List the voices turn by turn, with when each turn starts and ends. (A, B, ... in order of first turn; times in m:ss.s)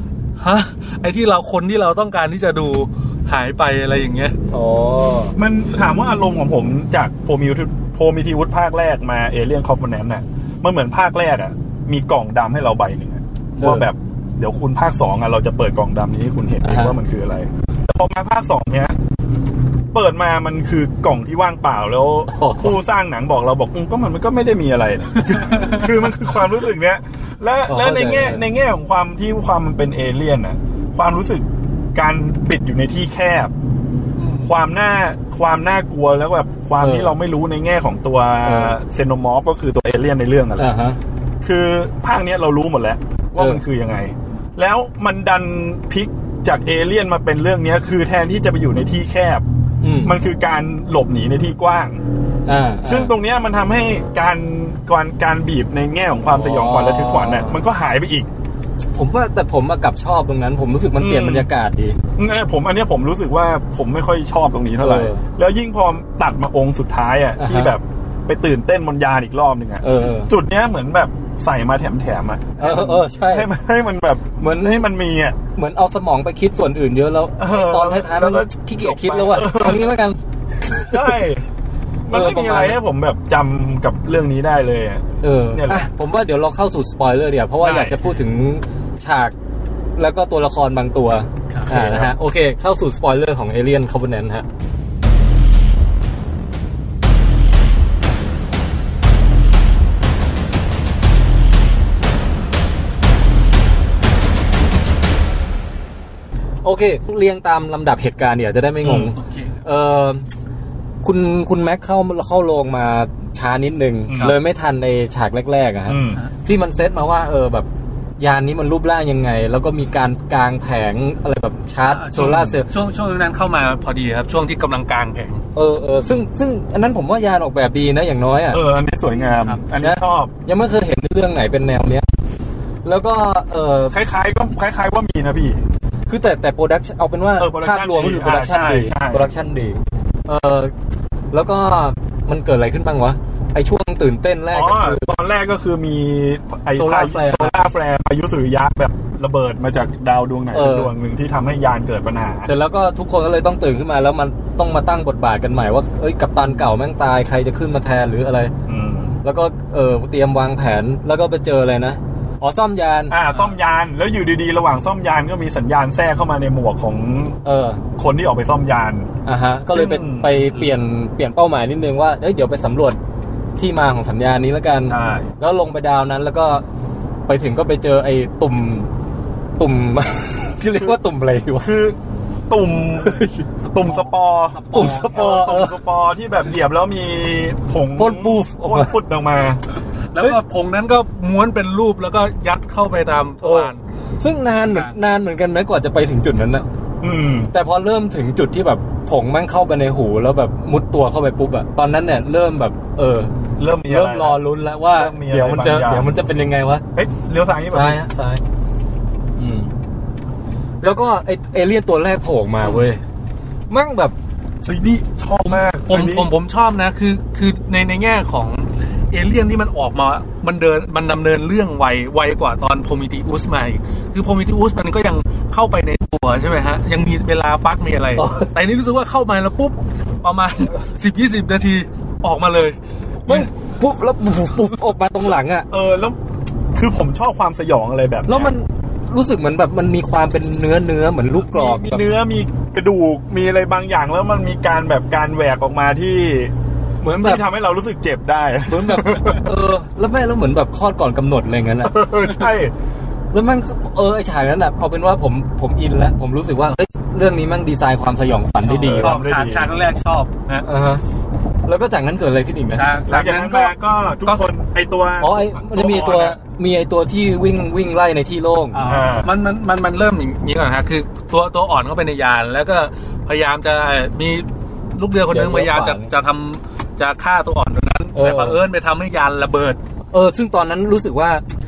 0:00.4-0:04.3 A
0:04.5-0:05.4 B
0:05.4-0:19.0 C
0:13.6-0:13.9 B
0:16.6-0:17.0 B
0:19.9-0:33.5 C
0:22.3-0:22.8 B
0:27.7-0:28.4 B
0:34.2-0:34.5 A
0:34.4-0:40.7 C
0:36.8-0:37.1 B
0:38.4-0:38.8 B
0:40.6-0:41.0 B
0:41.4-0:49.4 C
0:49.8-0:50.1 B
0:50.0-0:52.0 C
0:52.4-0:53.1 B
0:52.8-0:58.3 C
0:56.3-0:57.6 B
0:58.9-1:02.0 B
1:01.0-1:01.5 C
1:02.2-1:15.4 C
1:04.8-1:05.2 B
1:07.4-1:07.7 B
1:09.8-1:10.3 B
1:12.6-1:13.5 B
1:14.4-1:14.8 B
1:15.5-1:21.2 B
1:17.4-1:20.0 C
1:20.7-1:21.4 C
1:22.0-1:25.9 C
1:22.1-1:22.8 B
1:25.2-1:29.3 B
1:27.7-1:27.9 C
1:30.0-1:34.4 B
1:31.7-1:32.1 C
1:46.6-1:50.2 B
1:48.8-1:49.1 C
1:49.2-1:49.5 A
1:51.0-1:57.7 B
1:54.1-1:54.3 C
1:55.9-1:56.2 C
1:58.2-2:02.7 B
2:01.9-2:05.4 A
2:05.5-2:08.6 B
2:08.5-2:10.3 C
2:09.3-2:09.6 A
2:09.8-2:12.0 B
2:12.8-2:13.9 B
2:13.9-2:15.6 C
2:16.1-2:20.7 B
2:17.4-2:19.3 C
2:21.3-2:25.1 B
2:24.5-2:32.5 C
2:26.7-2:27.6 B
2:30.5-2:30.9 B
2:32.5-2:38.5 B
2:38.7-2:39.2 C
2:39.2-2:43.2 B
2:43.1-2:47.4 C
2:47.4-2:47.8 B
2:48.0-2:49.1 C
2:49.2-2:53.0 B
2:49.7-2:50.5 C
2:53.6-2:56.6 B
2:54.9-2:55.3 C
2:57.3-2:58.9 B
2:59.6-3:01.7 B
3:01.6-3:02.0 C
3:02.5-3:03.2 C
3:03.0-3:03.5 B
3:03.6-3:05.2 A
3:03.7-3:09.6 C
3:04.7-3:05.8 B
3:08.0-3:08.9 B
3:10.1-3:13.8 A
3:13.4-3:16.6 B
3:14.6-3:15.0 A
3:17.0-3:17.5 C
3:17.5-3:23.3 B
3:23.6-3:26.1 C
3:23.8-3:26.8 B
3:26.9-3:28.0 C
3:27.7-3:28.4 B
3:29.4-3:29.7 B
3:30.8-3:33.0 B
3:33.7-3:34.1 B
3:34.6-3:36.3 C
3:35.5-3:53.5 A
3:48.2-3:48.5 B
3:53.3-3:55.7 B
3:55.7-3:56.2 C
3:56.7-3:58.5 C
3:58.3-4:02.0 B
4:01.4-4:06.5 C
4:07.0-4:07.4 B
4:07.1-4:09.4 C
4:08.7-4:12.0 B
4:11.8-4:12.7 C
4:13.3-4:19.2 B
4:18.6-4:20.6 A
4:18.8-4:19.7 C
4:20.6-4:21.0 B
4:21.6-4:22.9 B
4:22.7-4:24.4 A
4:23.1-4:26.4 C
4:25.2-4:28.8 B
4:28.7-4:39.8 A
4:28.8-4:29.3 C
4:35.3-4:36.1 B
4:38.1-4:38.6 B
4:40.1-4:41.4 B